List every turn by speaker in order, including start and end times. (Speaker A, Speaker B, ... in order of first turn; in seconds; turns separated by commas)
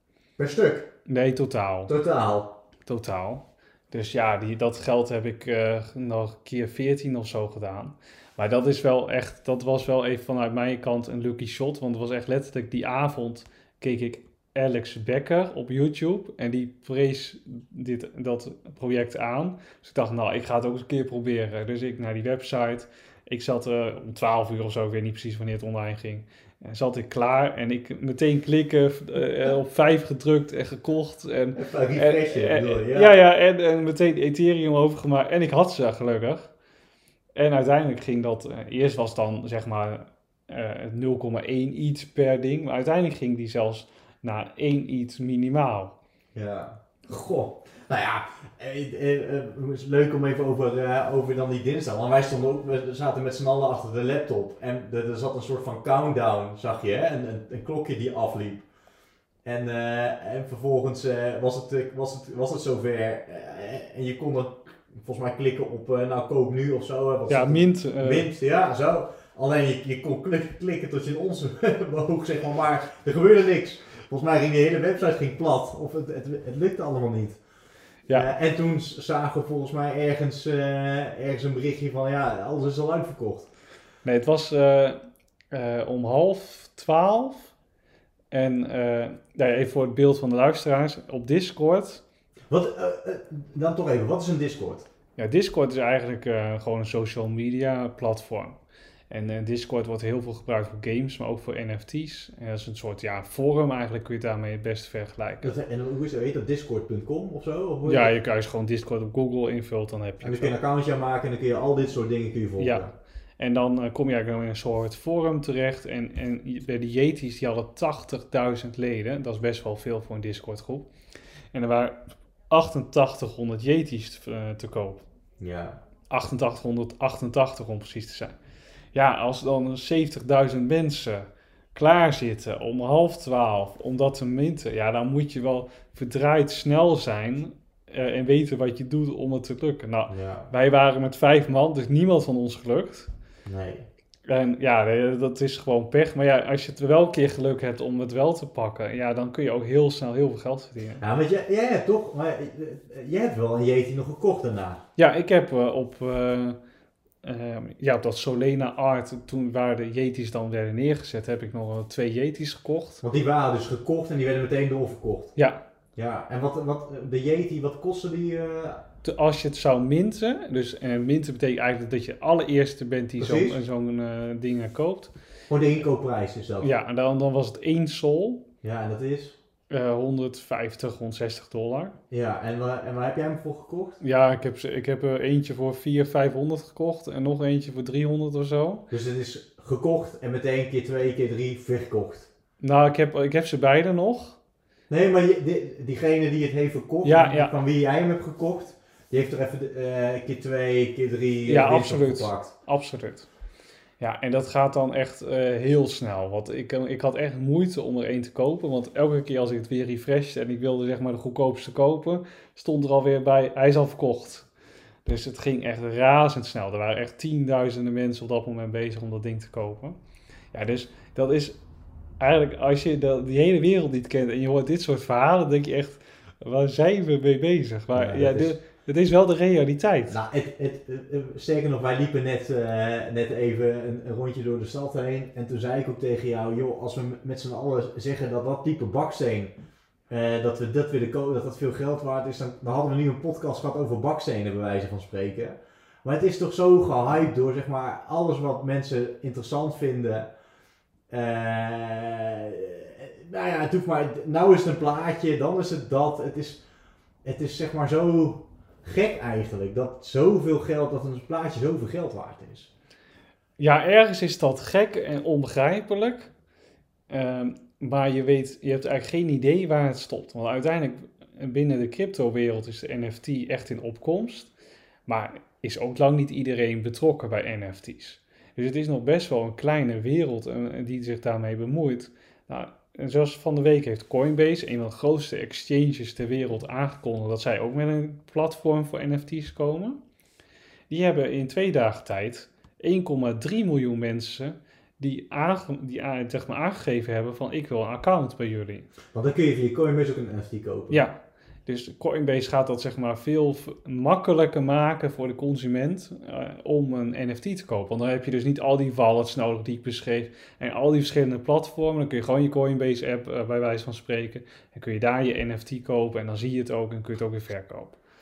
Speaker A: 0.4-0.9, Speaker B: 1.1-1.9, Speaker A: 1.9-2.6, Speaker B: 2.9-36.5, Speaker A: 31.6-33.2, Speaker B: 37.4-46.0, Speaker A: 46.4-58.7, Speaker A: 59.4-77.4, Speaker B: 67.3-68.3, Speaker A: 78.1-83.5, Speaker B: 84.0-87.5, Speaker B: 88.3-92.0, Speaker A: 92.5-94.9, Speaker B: 95.2-98.6, Speaker B: 99.1-105.5, Speaker A: 105.4-108.1, Speaker B: 107.8-110.5, Speaker A: 110.2-113.0, Speaker B: 112.6-112.9, Speaker B: 113.4-120.9, Speaker B: 121.5-125.1, Speaker A: 125.4-125.8, Speaker B: 126.1-128.3, Speaker B: 128.9-143.1, Speaker A: 140.1-140.5, Speaker A: 143.5-143.9, Speaker B: 144.3-151.0, Speaker A: 151.0-154.8, Speaker B: 155.0-156.6, Speaker B: 157.2-163.0, Speaker A: 163.0-165.3, Speaker B: 165.4-165.6, Speaker A: 166.0-168.8, Speaker B: 169.0-175.1, Speaker A: 173.2-173.6, Speaker A: 175.5-176.7, Speaker B: 176.6-178.4, Speaker A: 178.6-179.4, Speaker B: 179.7-182.0, Speaker A: 182.1-184.0, Speaker B: 184.0-188.8, Speaker A: 188.9-192.3, Speaker B: 192.6-194.4, Speaker A: 194.9-202.5, Speaker B: 197.0-197.5, Speaker B: 201.5-203.3, Speaker B: 204.0-214.5, Speaker B: 215.1-220.0, Speaker B: 220.5-221.6, Speaker B: 222.2-230.2, Speaker A: 227.9-228.6, Speaker A: 230.1-239.5, Speaker A: 240.1-250.3, Speaker A: 251.1-256.6, Speaker A: 257.2-262.7, Speaker B: 263.6-266.3, Speaker B: 267.1-274.5, Speaker B: 275.1-290.0, Speaker B: 290.9-298.9, Speaker A: 299.1-301.1, Speaker B: 300.9-318.0